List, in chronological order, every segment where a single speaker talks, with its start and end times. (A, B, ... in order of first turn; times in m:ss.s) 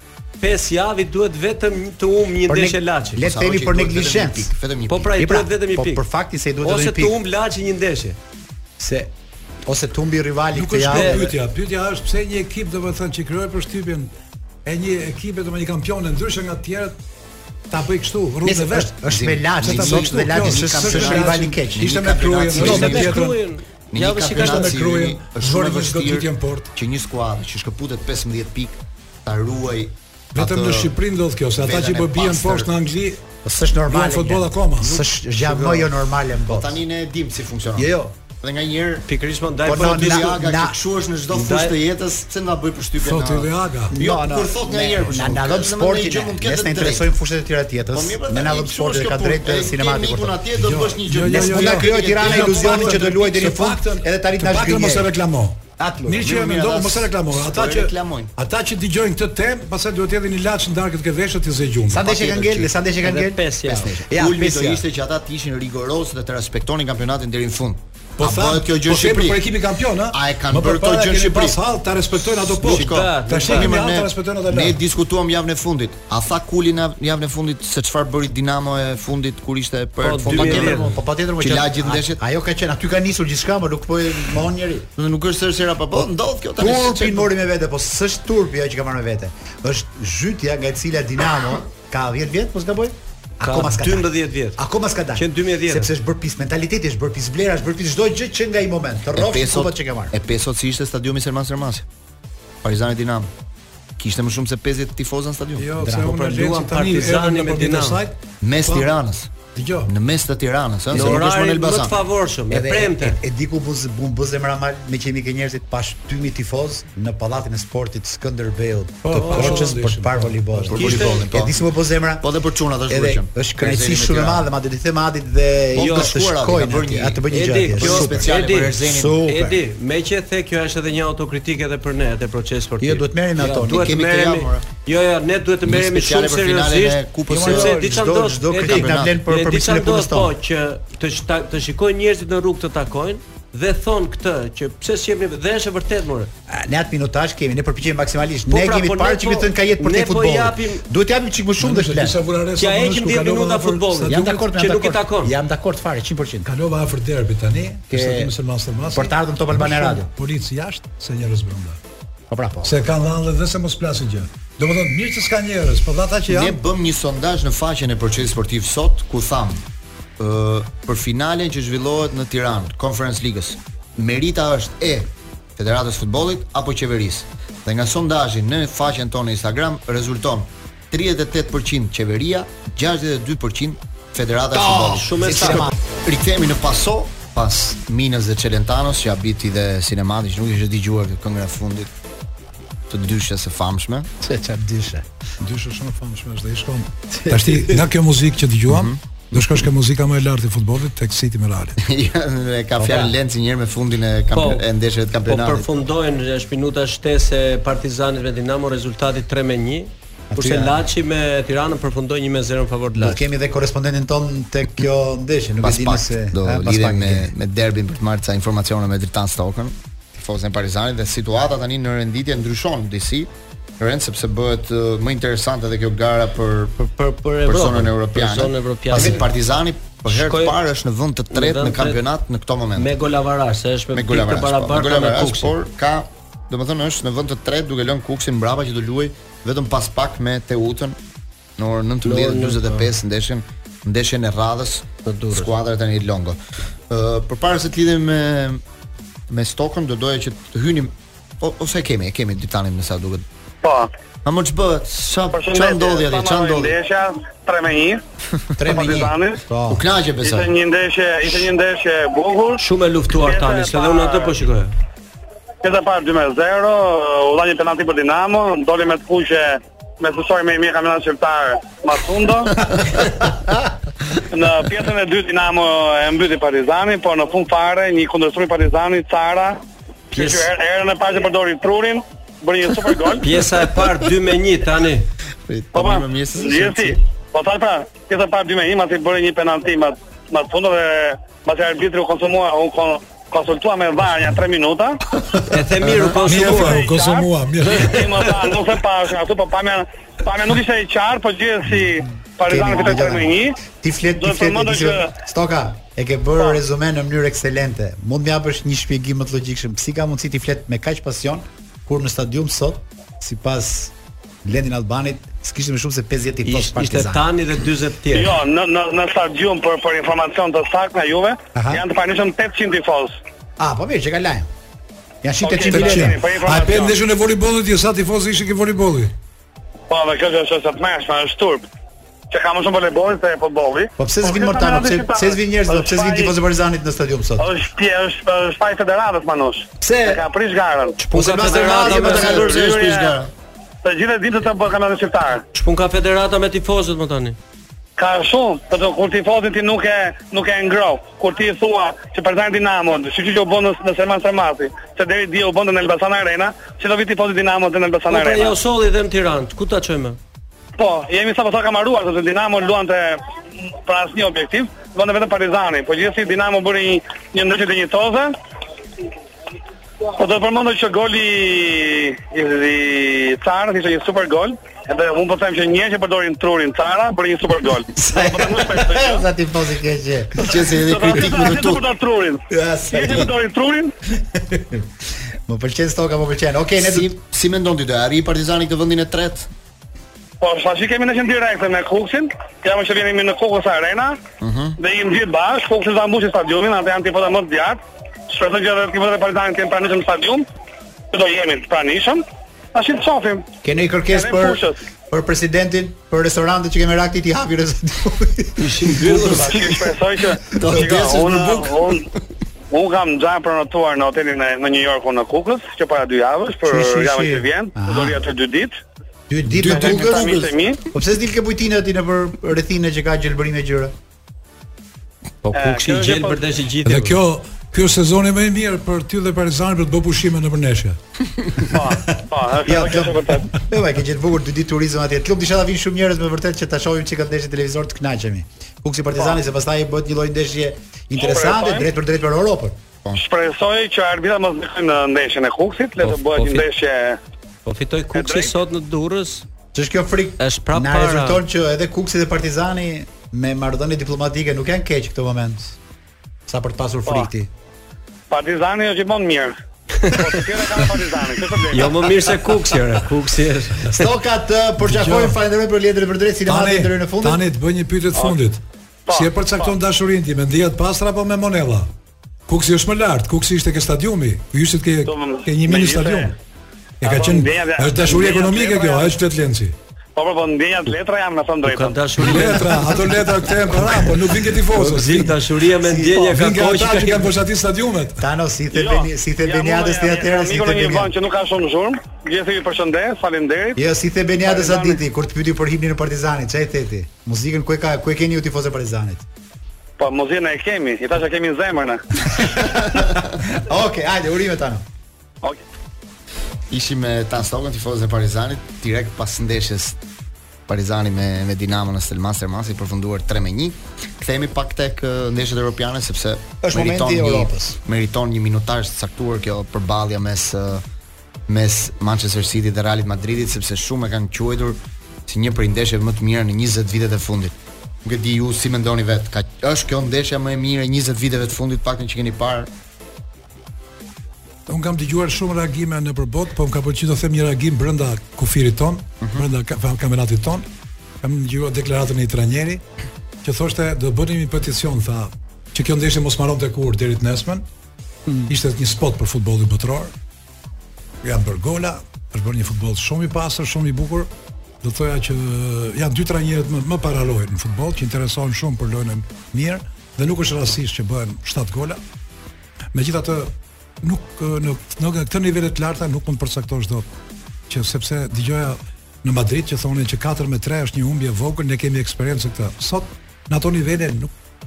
0:00.4-0:03.2 A
0:02.5-0:04.5 B
0:03.2-0:05.1 C
0:04.9-0:06.0 A
0:05.2-0:07.2 B
0:06.6-0:08.2 A
0:08.8-0:09.1 B
0:09.7-0:11.3 B
0:10.5-0:14.1 D
0:10.9-0:11.3 A
0:14.6-0:16.9 D
0:17.7-0:19.0 D
0:18.4-0:21.9 B
0:19.1-0:23.2 C
0:19.6-0:23.4 D
0:22.5-0:24.7 A
0:23.9-0:30.9 C
0:24.3-0:26.7 D
0:30.3-0:33.2 D
0:31.6-0:32.7 C
0:33.4-0:36.8 B
0:33.9-0:35.0 D
0:34.8-0:35.9 C
0:36.4-0:39.0 C
0:37.8-0:38.1 B
0:39.0-0:40.3 A
0:39.6-0:40.8 B
0:39.6-0:47.1 C
0:41.3-0:41.7 A
0:43.0-0:43.9 D
0:43.9-0:50.4 B
0:47.9-0:53.2 C
0:50.6-1:02.1 D
0:51.2-0:55.1 B
0:55.8-0:56.3 B
0:56.2-0:58.3 C
1:01.9-1:04.8 B
1:02.0-1:02.7 C
1:03.0-1:04.0 A
1:03.6-1:09.5 C
1:08.2-1:14.8 D
1:10.1-1:11.6 C
1:12.5-1:20.8 C
1:12.6-1:13.7 A
1:20.0-1:20.9 A
1:20.2-1:24.9 B
1:21.4-1:22.2 C
1:25.0-1:27.3 C
1:25.9-1:40.1 B
1:33.4-1:34.6 A
1:35.2-1:35.9 A
1:39.1-1:41.8 C
1:42.6-1:43.3 C
1:44.0-1:45.7 C
1:45.6-1:48.9 D
1:45.8-1:46.1 B
1:46.0-1:48.0 A
1:48.4-1:49.3 C
1:49.5-1:49.9 D
1:49.8-1:52.0 C
1:50.9-1:53.2 A
1:50.9-1:51.2 B
1:52.5-2:02.3 B
1:59.0-2:00.7 D
1:59.1-1:59.7 A
2:00.7-2:01.6 C
2:00.8-2:01.2 A
2:02.2-2:04.4 C
2:02.9-2:09.6 B
2:05.7-2:09.2 C
2:05.8-2:06.1 A
2:07.3-2:26.3 A
2:12.8-2:13.8 B
2:13.7-2:14.7 C
2:15.6-2:17.8 C
2:17.3-2:20.3 B
2:18.6-2:19.2 C
2:26.5-2:32.2 B
2:28.5-2:30.8 A
2:31.6-2:34.5 D
2:32.6-2:35.3 A
2:34.1-2:36.5 B
2:36.4-2:41.8 D
2:37.9-2:38.3 B
2:38.8-2:40.1 B
2:42.3-2:42.8 B
2:42.6-2:46.6 D
2:46.3-2:49.6 C
2:50.2-3:11.9 C
3:04.5-3:05.7 B
3:04.8-3:05.7 A
3:12.9-3:14.1 C
3:14.2-3:15.0 B
3:15.4-3:21.8 D
3:17.1-3:17.8 B
3:18.7-3:19.0 C
3:21.8-3:25.7 C
3:22.8-3:23.1 B
3:24.3-3:24.6 A
3:25.2-3:33.2 A
3:30.3-3:30.8 B
3:33.0-3:37.3 B
3:35.6-3:46.8 C
3:46.8-3:49.3 A
3:47.4-3:52.9 C
3:50.1-3:50.6 A
3:51.3-3:52.0 A
3:52.8-3:55.5 A
3:53.9-4:01.0 C
4:01.6-4:06.4 C
4:02.0-4:02.9 A
4:05.0-4:05.5 A
4:06.9-4:08.6 C
4:09.3-4:13.2 C
4:13.6-4:13.9 E
4:14.2-4:16.7 C
4:15.3-4:18.0 E
4:18.6-4:19.8 B
4:18.7-4:19.4 E
4:19.7-4:20.5 C
4:20.2-4:22.6 E
4:22.6-4:24.7 A
4:23.1-4:24.4 E
4:25.6-4:32.6 E
4:34.3-4:39.6 E
4:40.1-4:43.3 E
4:40.1-4:40.5 A
4:43.2-4:45.1 A
4:45.5-4:47.0 C
4:45.7-4:55.0 E
4:55.5-4:56.9 A
4:56.2-5:03.6 E
4:56.2-4:58.3 D
5:02.5-5:13.9 B
5:04.2-5:05.1 E
5:14.4-5:17.3 B
5:16.4-5:18.4 A
5:18.1-5:23.2 E
5:21.5-5:21.8 B
5:23.6-5:24.5 B
5:25.2-5:26.2 B
5:25.4-5:27.0 E
5:25.7-5:29.1 D
5:29.9-5:31.6 E
5:32.3-5:36.3 E
5:34.0-5:37.5 B
5:37.4-5:43.2 E
5:39.8-5:40.2 B
5:41.0-5:42.4 A
5:41.0-5:42.5 B
5:41.6-5:43.3 C
5:43.8-5:45.4 E
5:45.5-5:47.4 A
5:48.0-5:58.6 E
5:58.1-6:00.2 A
6:00.8-6:08.3 E
6:10.2-6:19.2 E
6:17.9-6:20.7 B
6:20.4-6:21.8 C
6:20.7-6:23.9 E
6:22.5-6:23.3 B
6:24.2-6:24.9 B
6:25.5-6:27.1 B
6:26.8-6:29.5 C
6:30.4-6:34.2 E
6:34.4-6:34.8 C
6:34.8-6:40.4 E
6:41.1-6:42.2 E
6:42.7-6:43.5 E
6:43.6-6:49.0 B
6:44.1-6:44.8 E
6:48.6-6:49.4 A
6:48.8-6:49.9 C
6:49.2-6:52.1 E
6:50.5-6:52.0 C
6:52.7-6:58.7 E
6:56.7-6:58.2 B
6:59.3-7:03.9 B
6:59.5-7:00.5 C
6:59.6-7:00.8 E
7:05.4-7:07.2 A
7:05.5-7:06.4 E
7:06.8-7:11.0 D
7:11.7-7:13.5 E
7:12.6-7:22.8 B
7:21.2-7:21.9 E
7:23.1-7:27.2 E
7:26.0-7:26.6 A
7:27.6-7:29.4 A
7:28.1-7:28.5 E
7:29.7-7:35.8 B
7:30.4-7:31.4 A
7:36.5-7:37.5 B
7:38.3-7:42.2 E
7:40.0-7:40.3 A
7:41.7-7:44.1 A
7:43.9-7:47.4 B
7:44.8-7:45.4 D
7:46.5-7:51.9 D
7:49.1-7:49.7 E
7:52.5-7:56.3 D
7:55.0-7:56.3 E
7:57.0-7:59.8 D
7:57.0-7:59.1 E
8:00.2-8:02.5 E
8:01.6-8:03.0 A
8:02.2-8:05.4 D
8:04.7-8:07.3 A
8:05.8-8:06.3 B
8:06.2-8:08.2 D
8:08.2-8:11.1 B
8:08.7-8:13.8 E
8:13.8-8:19.2 B
8:14.4-8:15.0 E
8:20.0-8:22.0 E
8:22.2-8:24.8 B
8:26.7-8:30.0 C
8:30.7-8:40.8 C
8:36.6-8:37.8 B
8:41.5-8:52.7 C
8:54.7-9:00.6 D
9:01.2-9:02.8 D
9:03.4-9:07.6 D
9:08.4-9:10.1 D
9:11.2-9:14.3 D
9:14.8-9:22.0 D
9:22.9-9:27.0 D
9:27.7-9:34.3 D